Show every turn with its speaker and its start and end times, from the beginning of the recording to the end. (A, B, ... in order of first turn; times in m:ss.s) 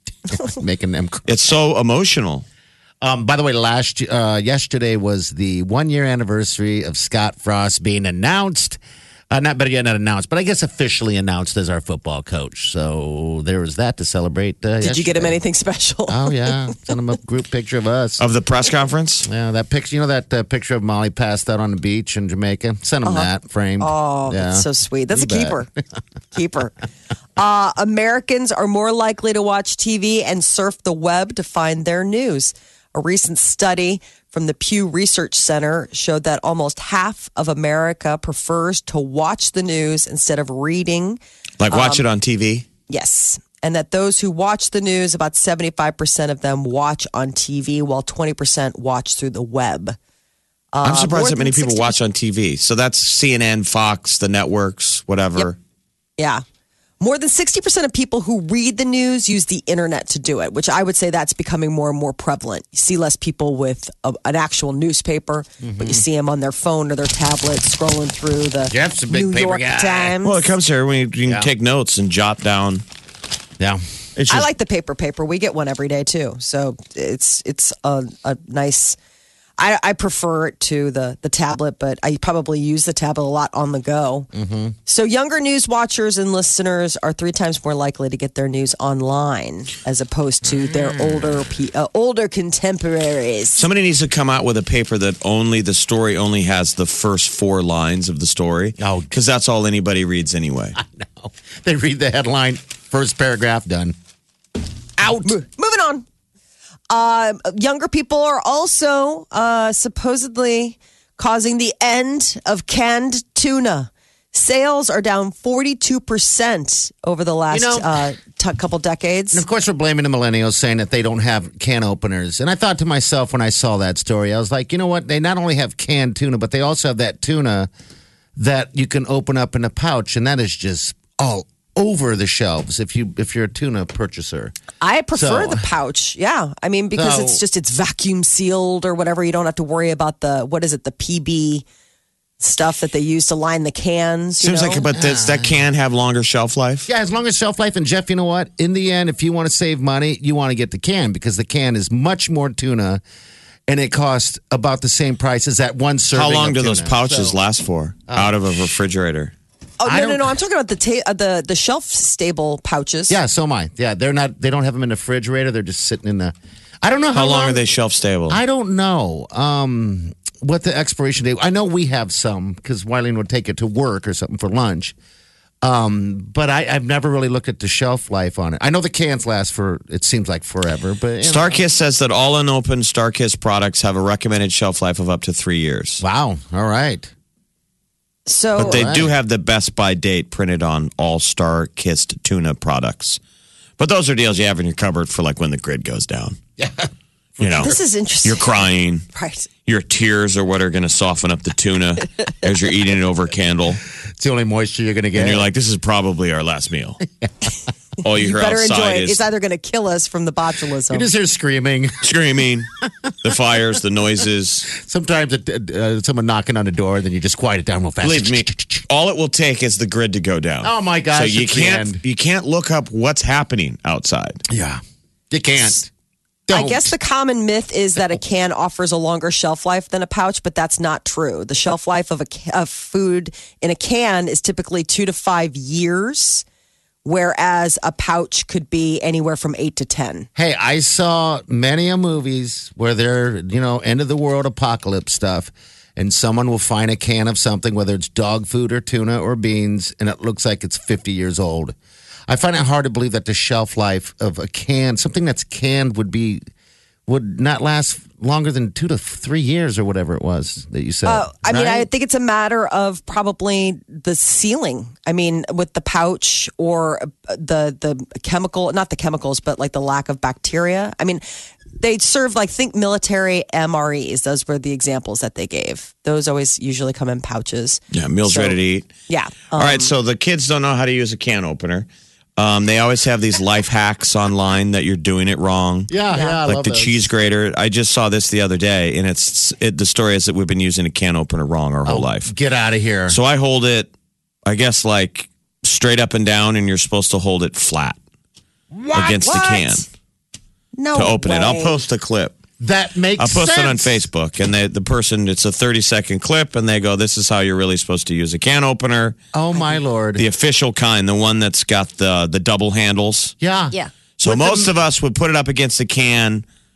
0:00.4-0:01.4 A
0:01.3-0:02.4 B
0:03.0-0:08.8 A
0:09.3-0:15.4 A
0:14.8-0:16.5 C
0:16.1-0:18.2 A
0:18.2-0:19.3 B
0:19.2-0:25.6 A
0:23.0-0:25.7 C
0:26.3-0:26.7 C
0:27.4-0:42.0 C
0:41.6-0:42.6 B
0:42.9-0:50.0 C
0:50.7-0:51.9 C
0:50.8-0:55.6 B
0:56.2-0:56.4 C
0:57.0-1:10.4 C
1:05.6-1:06.0 A
1:08.7-1:10.2 A
1:10.2-1:12.8 B
1:13.6-1:14.4 A
1:14.3-1:19.0 C
1:19.6-1:24.3 C
1:24.3-1:24.7 A
1:24.8-1:33.6 C
1:30.5-1:31.4 A
1:33.6-1:40.8 B
1:38.8-1:39.1 A
1:40.8-1:43.9 A
1:45.0-1:45.4 A
1:45.0-1:46.0 C
1:46.9-1:59.4 C
1:57.5-1:58.1 A
1:59.3-2:07.7 A
2:08.4-2:14.6 A
2:14.8-2:21.6 C
2:15.1-2:15.6 A
2:16.9-2:17.4 A
2:22.4-2:24.8 C
2:24.4-2:26.9 B
2:24.9-2:25.5 A
2:26.9-2:33.0 A
2:33.7-2:37.4 A
2:36.1-2:39.3 B
2:38.1-2:38.7 A
2:39.8-2:43.2 C
2:39.8-2:40.4 A
2:43.1-2:47.6 A
2:47.1-2:48.4 B
2:48.3-2:54.9 A
2:55.6-3:01.6 A
3:01.2-3:06.0 B
3:06.0-3:07.1 A
3:08.3-3:08.9 C
3:08.6-3:09.1 A
3:08.6-3:13.2 B
3:13.8-3:16.4 B
3:16.6-3:16.9 A
3:17.4-3:19.0 B
3:17.6-3:18.5 C
3:19.1-3:19.5 C
3:19.6-3:23.8 B
3:24.2-3:25.5 A
3:25.1-3:27.0 B
3:28.0-3:29.2 B
3:28.1-3:31.1 C
3:30.9-3:32.0 A
3:32.0-3:32.7 B
3:33.2-3:34.7 B
3:34.7-3:38.8 A
3:38.0-3:44.4 B
3:40.6-3:42.0 A
3:44.5-3:45.9 A
3:46.5-3:46.9 A
3:46.5-3:56.4 C
3:57.0-4:00.3 C
4:00.4-4:11.7 A
4:12.3-4:16.4 A
4:17.1-4:21.9 A
4:21.0-4:31.2 C
4:31.8-4:39.9 C
4:37.9-4:38.9 B
4:39.5-4:45.9 B
4:45.9-4:47.1 A
4:46.1-4:46.4 C
4:46.4-4:52.3 B
4:51.8-4:53.2 A
4:53.1-4:53.9 B
4:54.4-4:58.0 B
4:58.9-4:59.8 C
4:58.9-4:59.8 B
5:00.8-5:01.8 C
5:00.9-5:02.4 B
5:02.6-5:04.0 A
5:03.2-5:09.2 B
5:09.3-5:10.2 A
5:10.2-5:13.3 B
5:13.4-5:14.7 A
5:14.2-5:16.4 B